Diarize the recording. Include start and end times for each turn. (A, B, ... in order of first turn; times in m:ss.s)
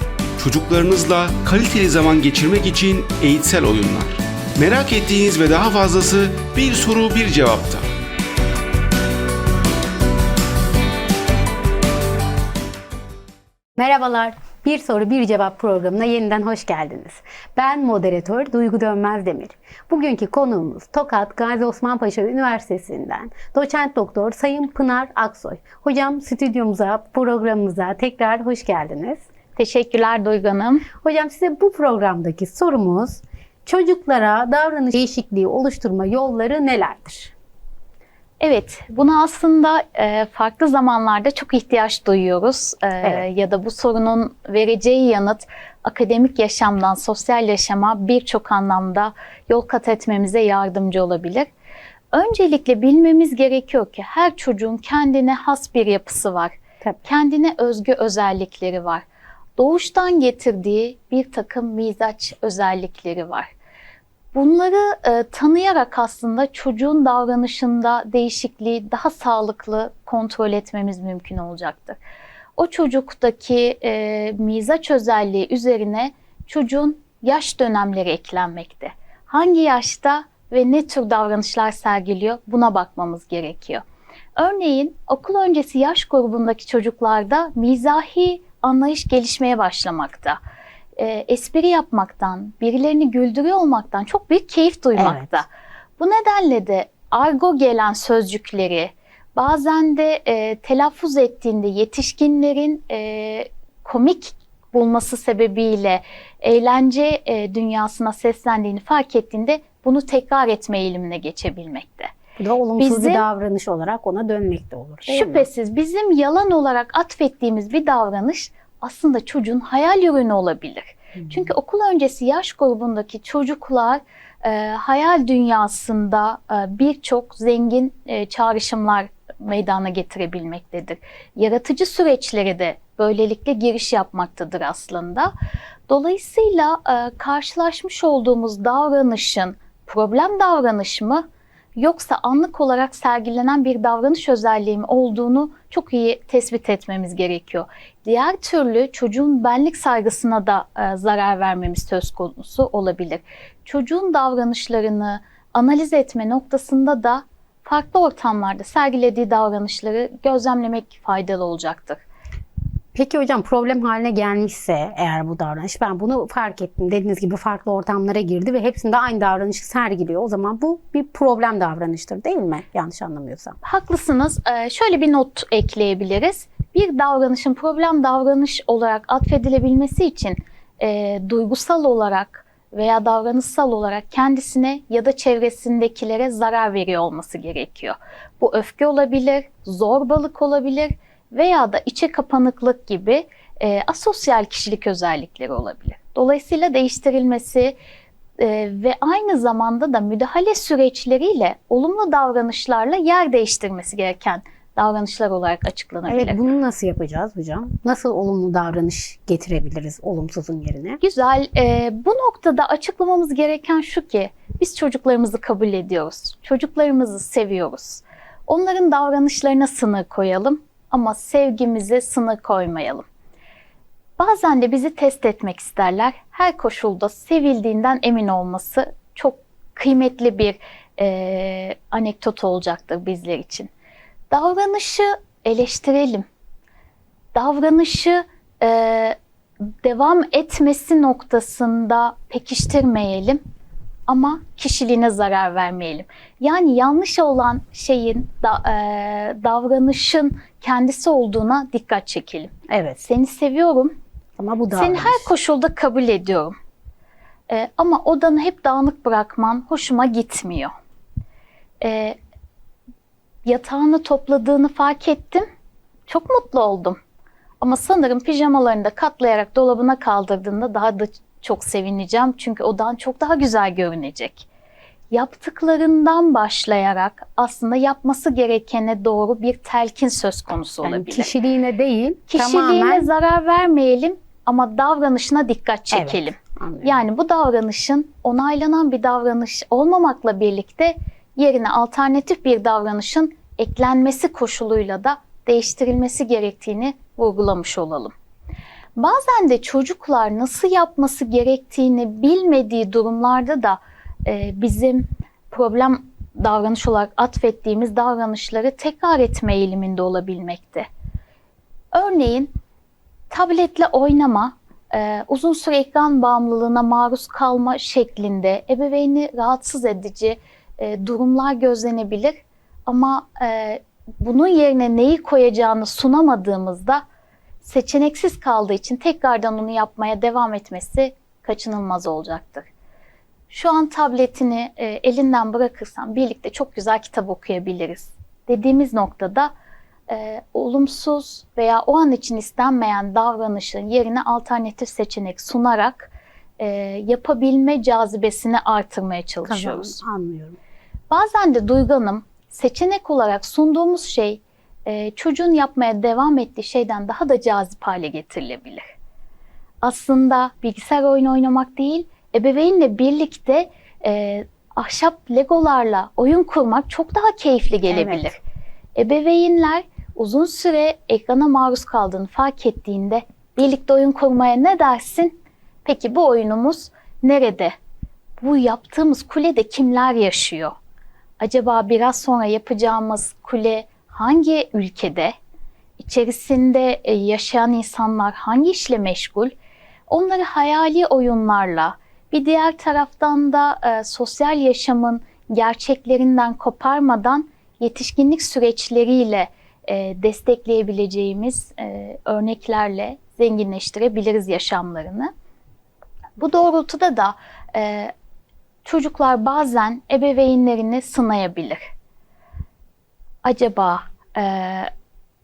0:00.4-0:07.9 A
0:13.8-0:29.2 B
0:29.6-0:30.9 C
0:31.0-0:37.3 B
0:38.4-0:51.5 C
0:52.1-0:59.0 C
0:59.6-1:03.5 C
1:04.3-1:12.0 C
1:12.6-1:23.8 C
1:24.4-1:30.4 C
1:31.0-1:35.5 C
1:35.0-1:35.3 B
1:36.0-1:52.1 C
1:52.4-1:55.5 B
1:52.8-1:53.2 C
1:55.1-2:15.3 C
2:15.9-2:21.2 C
2:21.8-2:42.0 C
2:42.9-2:53.6 B
2:53.6-3:17.7 C
3:18.4-3:26.4 C
3:26.1-3:31.0 B
3:31.0-3:43.1 C
3:44.2-3:53.7 C
3:54.3-3:56.3 C
3:57.3-4:03.4 C
4:04.1-4:12.5 C
4:12.7-4:13.0 B
4:13.0-4:13.9 C
4:14.4-4:15.3 B
4:14.7-4:16.6 C
4:17.5-4:20.7 C
4:21.8-4:22.2 C
4:23.4-4:25.4 C
4:26.1-4:27.0 C
4:27.6-4:34.5 C
4:35.1-4:41.3 C
4:40.8-4:43.1 B
4:42.3-4:58.1 C
4:45.9-4:47.0 B
4:59.0-5:10.9 C
5:11.9-5:12.5 C
5:13.3-5:27.0 C
5:27.6-5:32.7 C
5:33.5-5:39.5 C
5:40.1-5:50.0 C
5:49.5-5:50.6 B
5:51.1-5:58.8 C
5:59.8-6:08.4 C
6:07.9-6:08.3 B
6:09.0-6:17.7 C
6:18.4-6:20.7 C
6:21.4-6:25.3 C
6:26.0-6:29.5 C
6:30.1-6:45.3 C
6:46.4-6:48.1 C
6:48.8-6:51.8 C
6:53.4-6:54.9 C